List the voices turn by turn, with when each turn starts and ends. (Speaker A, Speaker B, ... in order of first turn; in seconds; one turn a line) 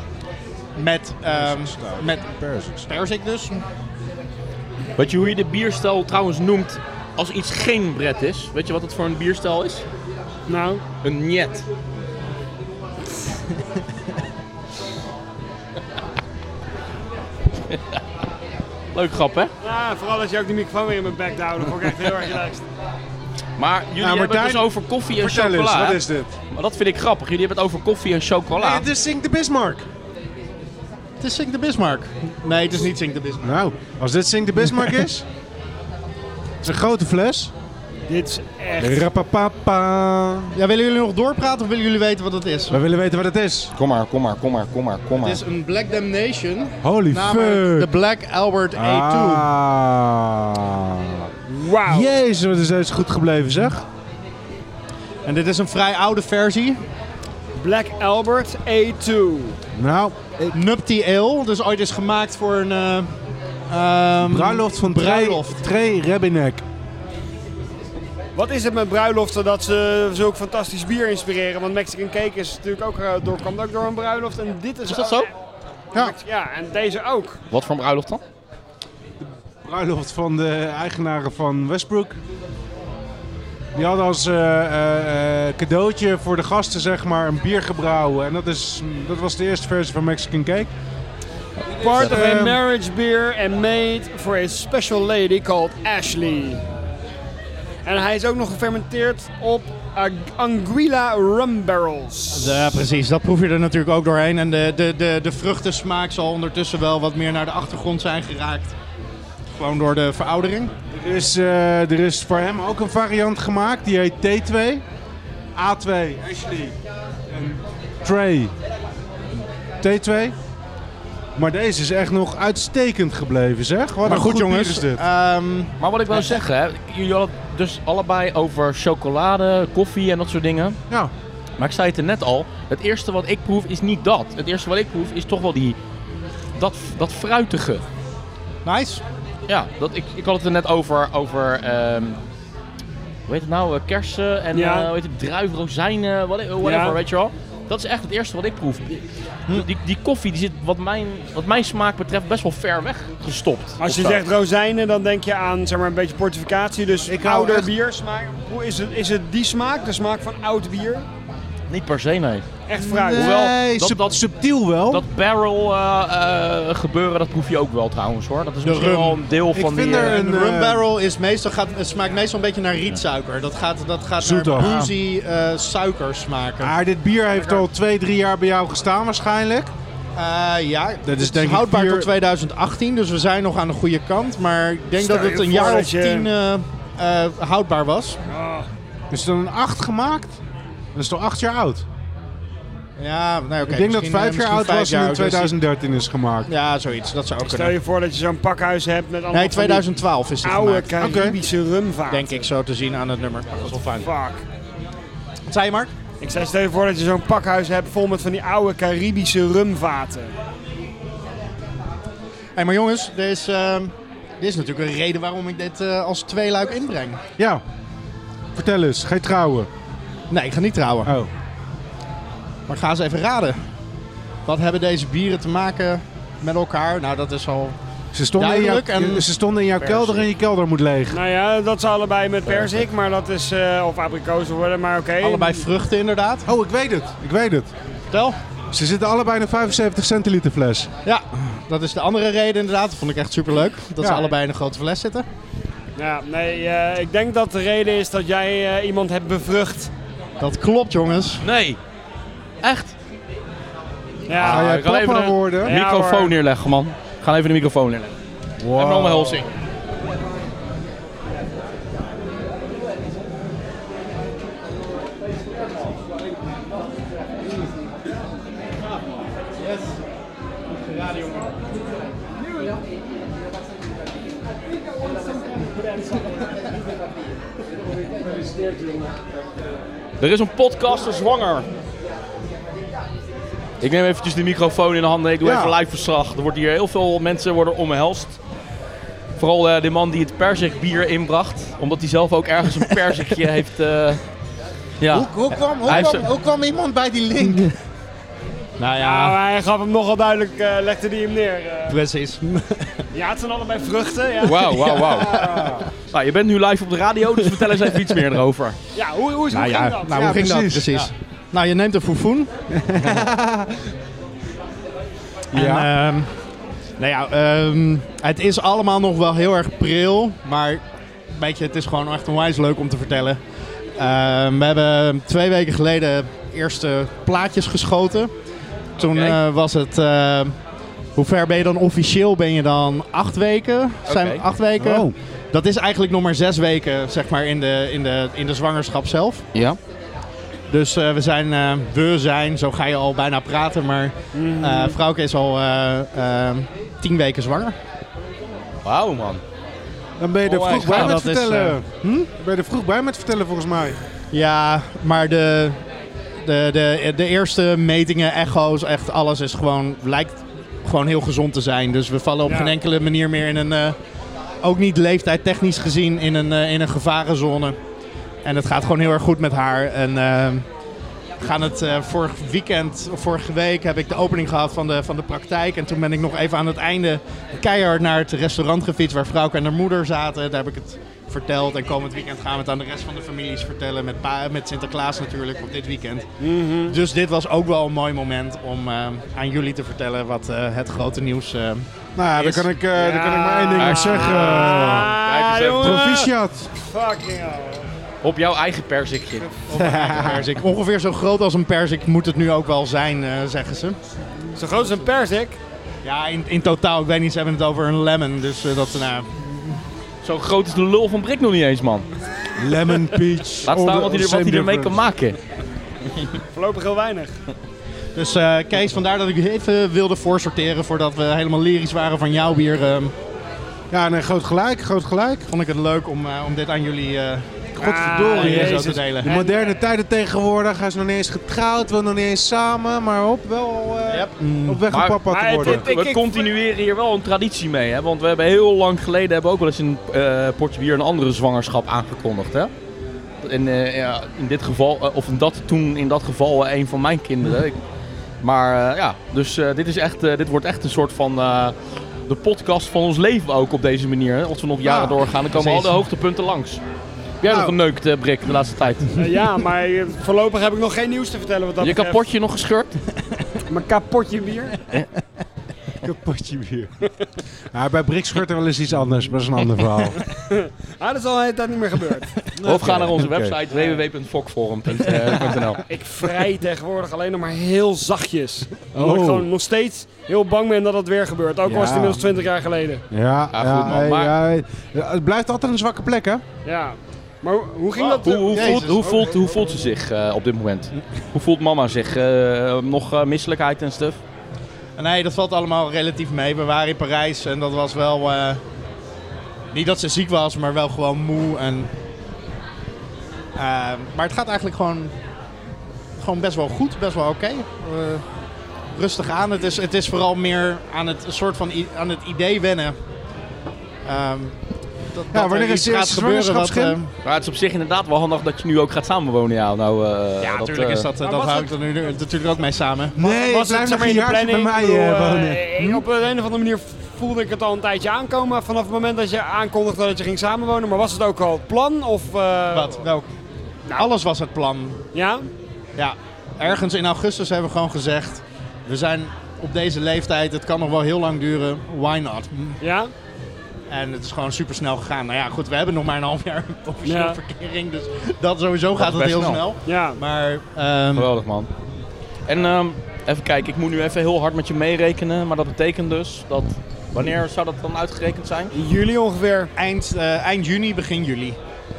Speaker A: 0.8-2.3
Speaker B: 1.3-2.9
Speaker A: 2.9-3.6
Speaker C: 5.0-9.8
Speaker D: 10.5-10.8
Speaker C: 11.0-11.7
Speaker C: 18.9-19.5
Speaker D: 19.6-22.7
Speaker C: 23.6-28.9
Speaker B: 24.0-26.3
Speaker B: 28.6-29.9
Speaker A: 31.2-33.6
Speaker B: 33.4-35.3
Speaker B: 36.6-37.5
Speaker D: 38.1-39.1
Speaker B: 38.8-40.5
Speaker A: 40.5-42.8
Speaker B: 42.7-43.7
Speaker C: 43.8-45.4
Speaker A: 45.2-49.5
Speaker B: 46.8-47.9
Speaker B: 48.8-51.3
Speaker D: 51.5-52.1
Speaker B: 51.9-53.9
Speaker A: 55.3-56.8
Speaker D: 57.6-59.6
Speaker B: 59.8-60.6
Speaker A: 60.5-63.1
Speaker A: 63.7-65.6
Speaker B: 64.3-66.6
Speaker D: 68.4-75.3
Speaker C: 74.9-75.3
Speaker D: 75.9-77.4
Speaker C: 77.5-78.2
Speaker B: 79.2-82.2
Speaker B: 83.8-90.7
Speaker B: 91.8-92.6
Speaker D: 91.8-96.6
Speaker C: 91.8-92.2
Speaker D: 97.8-102.8
Speaker A: 102.3-108.8
Speaker A: 109.6-110.7
Speaker B: 110.9-114.8
Speaker B: 115.5-116.8
Speaker B: 117.3-118.5
Speaker B: 119.8-120.4
Speaker B: 121.4-125.0
Speaker A: 124.0-126.4
Speaker C: 125.8-130.8
Speaker C: 131.6-135.8
Speaker C: 136.6-137.8
Speaker A: 138.7-139.0
Speaker C: 139.5-142.2
Speaker C: 143.3-154.3
Speaker D: 144.5-144.9
Speaker D: 146.6-147.0
Speaker D: 153.8-161.1
Speaker B: 157.1-157.7
Speaker C: 161.7-162.5
Speaker D: 162.7-163.4
Speaker B: 162.8-165.1
Speaker C: 163.1-164.2
Speaker C: 164.9-170.2
Speaker A: 168.6-169.3
Speaker B: 169.5-170.9
Speaker A: 169.9-176.8
Speaker B: 174.2-174.7
Speaker C: 174.6-174.9
Speaker B: 176.6-179.7
Speaker D: 177.3-177.7
Speaker A: 180.2-188.2
Speaker B: 181.1-182.1
Speaker D: 185.0-186.3
Speaker D: 188.3-188.7
Speaker B: 189.1-190.4
Speaker B: 190.9-191.9
Speaker A: 193.0-195.6
Speaker B: 193.7-196.5
Speaker A: 196.5-197.8
Speaker D: 197.4-199.9
Speaker A: 199.3-201.3
Speaker D: 200.4-202.4
Speaker B: 201.0-201.4
Speaker A: 202.1-204.1
Speaker D: 204.0-204.4
Speaker A: 205.5-205.9
Speaker D: 206.2-210.3
Speaker A: 212.6-217.2
Speaker B: 218.6-219.7
Speaker A: 220.3-221.1
Speaker A: 222.7-223.6
Speaker A: 224.5-227.8
Speaker B: 228.1-231.2
Speaker A: 228.4-229.3
Speaker C: 229.8-230.3
Speaker D: 231.1-235.6
Speaker A: 235.2-236.5
Speaker B: 236.5-237.7
Speaker A: 238.1-238.4
Speaker B: 238.7-240.9
Speaker A: 241.0-245.3
Speaker B: 244.0-244.3
Speaker D: 246.0-249.9
Speaker A: 250.4-251.4
Speaker C: 251.4-251.8
Speaker C: 252.6-252.9
Speaker D: 254.3-254.7
Speaker C: 254.3-258.1
Speaker B: 254.4-255.8
Speaker D: 255.6-256.4
Speaker B: 258.6-259.4
Speaker C: 258.7-259.5
Speaker C: 280.2-281.7
Speaker C: 283.8-288.4
Speaker B: 285.4-285.8
Speaker C: 289.4-294.2
Speaker C: 295.0-295.3
Speaker B: 295.1-297.8
Speaker C: 295.9-296.3
Speaker A: 298.8-299.4
Speaker D: 299.0-302.0
Speaker A: 301.9-303.0
Speaker D: 303.1-305.3
Speaker C: 304.4-305.3
Speaker B: 305.1-305.9
Speaker A: 305.4-305.8
Speaker C: 306.1-308.8
Speaker D: 308.9-310.4
Speaker A: 309.5-312.5
Speaker B: 310.1-310.9
Speaker B: 312.8-313.9
Speaker B: 315.5-315.9
Speaker A: 315.5-316.3
Speaker A: 317.0-323.4
Speaker A: 324.0-328.3
Speaker A: 329.0-330.6
Speaker C: 329.0-329.4
Speaker A: 331.1-339.5
Speaker C: 334.1-334.4
Speaker B: 334.8-335.1
Speaker A: 340.7-347.8
Speaker D: 344.3-345.0
Speaker C: 348.9-349.4
Speaker B: 350.2-354.0
Speaker C: 350.6-351.1
Speaker A: 350.6-351.8
Speaker A: 354.3-355.8
Speaker A: 356.4-364.0
Speaker D: 362.5-362.8
Speaker A: 364.6-367.8
Speaker A: 368.4-370.7
Speaker A: 371.4-386.3
Speaker D: 386.4-387.0
Speaker A: 386.9-392.7
Speaker B: 392.2-395.1
Speaker D: 392.9-397.9
Speaker C: 393.8-396.1
Speaker B: 395.8-396.7
Speaker C: 398.2-399.5
Speaker A: 399.7-404.0
Speaker B: 399.7-400.5
Speaker D: 404.6-405.6
Speaker A: 406.0-409.8
Speaker C: 410.2-412.1
Speaker B: 412.6-415.0
Speaker C: 413.6-415.4
Speaker D: 416.5-417.4
Speaker A: 418.1-423.1
Speaker B: 423.9-425.5
Speaker A: 425.5-427.5
Speaker B: 427.8-435.9
Speaker D: 427.8-429.8
Speaker A: 428.3-429.4
Speaker A: 434.1-434.8
Speaker C: 434.9-442.7
Speaker D: 435.3-436.5
Speaker C: 443.4-447.8
Speaker C: 448.4-456.8
Speaker B: 454.8-455.9
Speaker C: 457.4-459.1
Speaker B: 457.5-457.8
Speaker D: 459.2-462.2
Speaker C: 461.8-463.0
Speaker D: 463.7-464.8
Speaker B: 466.0-466.9
Speaker B: 467.7-470.2
Speaker D: 470.3-472.4
Speaker B: 472.5-473.6
Speaker C: 472.6-475.8
Speaker D: 473.7-474.0
Speaker D: 475.9-483.0
Speaker B: 479.0-479.5
Speaker B: 481.6-482.2
Speaker B: 483.1-486.4
Speaker C: 483.5-484.4
Speaker D: 486.6-488.8
Speaker C: 488.2-494.2
Speaker A: 488.5-489.3
Speaker B: 489.1-489.4
Speaker A: 495.0-498.6
Speaker A: 499.7-501.9
Speaker A: 503.6-505.1
Speaker A: 506.2-508.2
Speaker A: 508.9-513.0
Speaker A: 514.1-514.6
Speaker A: 515.1-517.1
Speaker B: 515.3-517.0
Speaker C: 517.2-521.1
Speaker A: 520.4-523.4
Speaker D: 521.2-521.7
Speaker B: 523.2-526.0
Speaker D: 523.3-533.0
Speaker A: 532.7-533.3
Speaker A: 533.9-535.0
Speaker D: 535.1-535.5
Speaker A: 536.0-542.8
Speaker D: 542.8-543.1
Speaker A: 543.9-551.3
Speaker D: 547.0-547.4
Speaker C: 549.0-549.6
Speaker D: 549.9-550.2
Speaker C: 551.1-551.7
Speaker C: 552.5-558.7
Speaker D: 558.7-559.7
Speaker A: 559.8-561.6